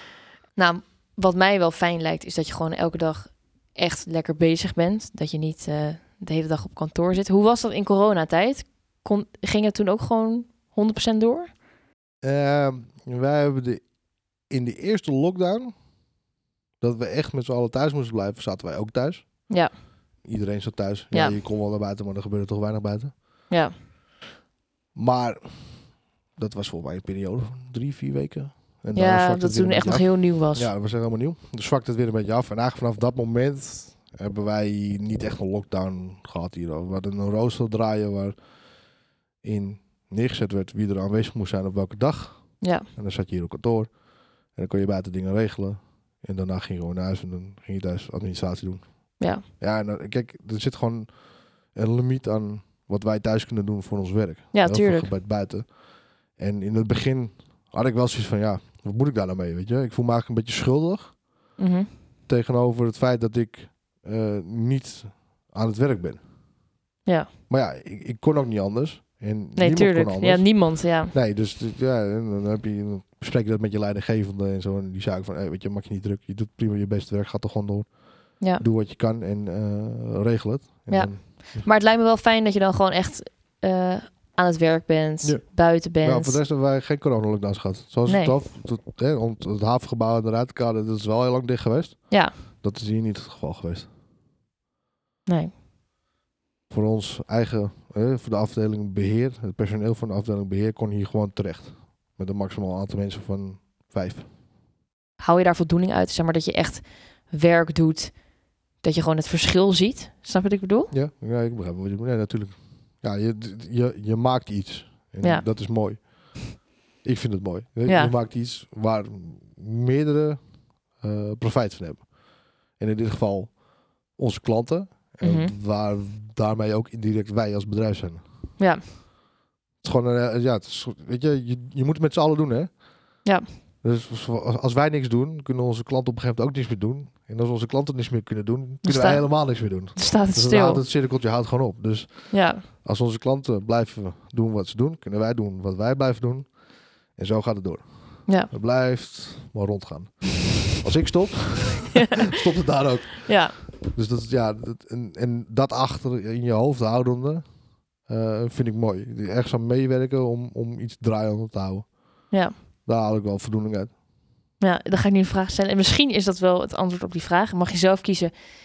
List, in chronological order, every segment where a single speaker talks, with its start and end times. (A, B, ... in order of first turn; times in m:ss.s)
0:00.6-0:11.5 A
0:12.2-0:13.8 B
0:14.5-0:15.7 B
0:16.8-0:19.5 B
0:20.2-0:23.1 B
0:24.9-0:25.4 B
0:26.4-0:38.4 B
0:28.9-0:30.7 A
0:39.4-0:43.9 B
0:42.6-0:42.9 A
0:44.5-0:51.1 B
0:51.7-0:55.7 B
0:54.5-0:55.1 A
0:56.4-1:01.1 B
1:01.6-1:01.9 A
1:02.3-1:06.2 B
1:07.5-1:21.6 B
1:09.6-1:11.1 A
1:20.9-1:26.4 A
1:25.2-1:33.9 B
1:28.1-1:28.3 A
1:35.3-1:35.5 A
1:36.7-1:44.2 B
1:45.2-1:48.2 A
1:48.8-1:50.9 A
1:50.9-1:56.4 B
1:55.2-1:55.5 A
1:57.0-2:00.4 B
1:57.9-1:58.1 A
2:01.0-2:02.1 B
2:02.8-2:03.6 B
2:04.1-2:08.2 B
2:05.2-2:05.5 A
2:09.8-2:12.7 B
2:13.8-2:26.5 B
2:18.8-2:20.8 A
2:22.3-2:22.6 A
2:27.2-2:37.4 B
2:31.9-2:32.3 A
2:33.2-2:33.5 A
2:38.0-2:41.9 B
2:42.8-2:43.9 B
2:44.6-2:48.3 A